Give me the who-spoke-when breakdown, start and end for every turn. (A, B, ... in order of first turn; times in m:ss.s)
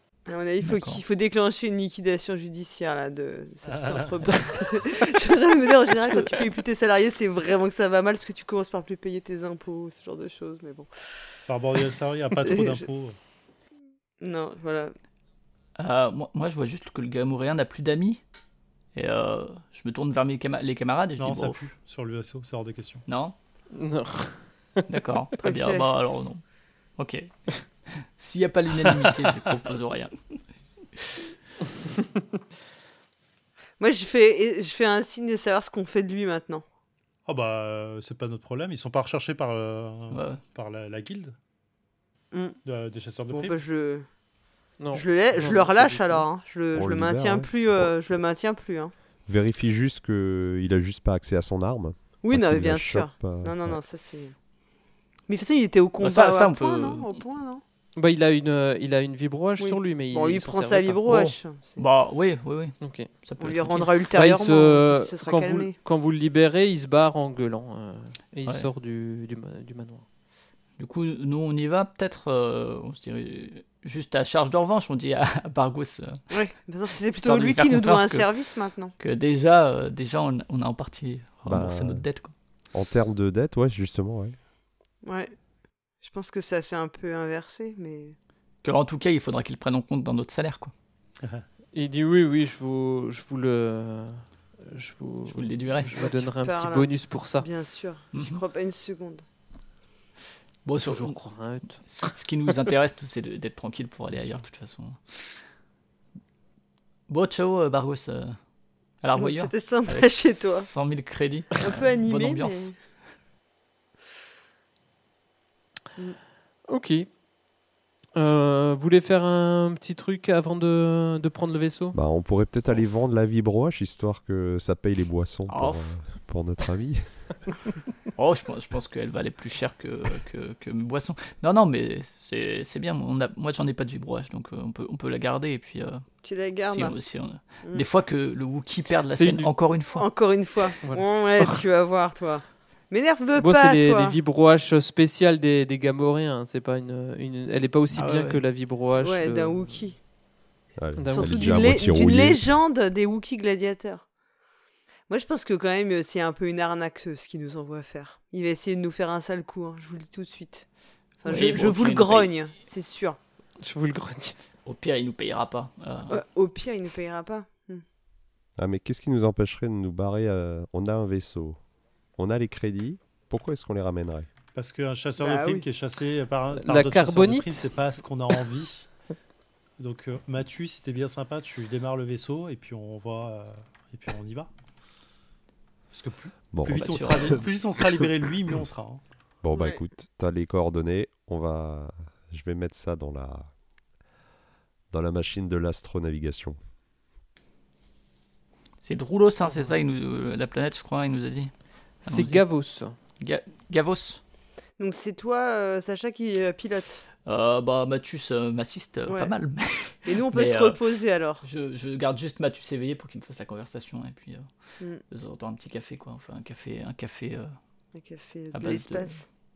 0:00.3-0:10.9 A
0:00.6-0:01.0 B
0:03.7-0:04.1 C
0:06.1-0:06.5 B
0:11.4-0:13.2 C
0:12.4-0:12.8 A
0:14.2-0:14.9 A
0:15.8-0:18.2 B
0:18.9-0:21.6 B
0:21.2-0:23.0 C
0:23.1-0:23.4 B
0:23.7-0:24.8 D
0:24.9-0:26.4 B
0:25.4-0:25.8 A
0:27.0-0:30.2 B
0:33.8-0:36.6 A
0:37.3-0:41.4 C
0:40.1-0:40.4 B
0:42.3-0:42.6 A
0:42.6-0:43.6 C
0:43.3-0:44.1 A
0:44.8-0:46.3 D
0:44.9-0:48.9 A
0:46.7-0:48.0 E
0:49.3-0:53.8 E
0:52.2-0:54.4 A
0:55.3-0:57.6 A
0:56.0-0:57.1 B
0:58.0-1:01.3 D
0:59.6-1:01.8 A
1:01.8-1:03.9 B
1:02.8-1:03.1 D
1:03.4-1:05.8 A
1:04.1-1:10.0 D
1:10.8-1:16.2 B
1:16.3-1:18.9 A
1:17.1-1:18.3 B
1:19.0-1:22.3 B
1:21.5-1:22.0 E
1:22.7-1:24.4 E
1:25.0-1:25.3 A
1:26.0-1:28.2 A
1:28.6-1:30.7 B
1:31.7-1:37.5 D
1:35.3-1:36.1 B
1:36.0-1:39.2 A
1:38.1-1:38.4 B
1:40.6-1:41.2 B
1:40.8-1:42.2 D
1:41.8-1:45.3 B
1:47.1-1:48.4 B
1:49.0-1:52.7 B
1:49.2-1:50.7 A
1:51.6-1:52.8 A
1:56.7-1:57.1 D
1:58.2-2:02.0 D
2:01.9-2:07.3 E
2:05.5-2:05.9 B
2:08.1-2:16.1 B
2:16.2-2:17.0 A
2:16.7-2:20.1 B
2:19.1-2:19.5 D
2:19.9-2:24.2 A
2:20.8-2:21.6 D
2:23.4-2:29.9 D
2:28.0-2:28.4 B
2:29.0-2:30.0 A
2:30.8-2:32.4 E
2:31.0-2:32.0 D
2:31.1-2:34.0 A
2:35.1-2:40.6 A
2:41.2-2:43.2 A
2:41.2-2:42.3 B
2:43.6-2:44.4 D
2:44.6-2:46.2 B
2:46.1-2:47.8 A
2:48.6-2:51.6 E
2:52.2-2:54.3 E
2:54.6-2:58.9 C
2:55.2-2:55.6 A
2:56.5-2:57.6 D
2:59.8-3:04.5 C
3:05.9-3:09.0 C
3:06.5-3:07.5 E
3:06.7-3:07.5 B
3:09.4-3:13.5 E
3:09.5-3:09.8 A
3:14.9-3:16.6 E
3:18.8-3:21.5 B
3:22.0-3:23.0 D
3:22.0-3:22.4 B
3:23.2-3:24.2 B
3:24.8-3:27.0 A
3:27.3-3:30.8 B
3:30.1-3:31.4 A
3:31.4-3:37.5 B
3:38.0-3:39.3 A
3:38.5-3:39.2 B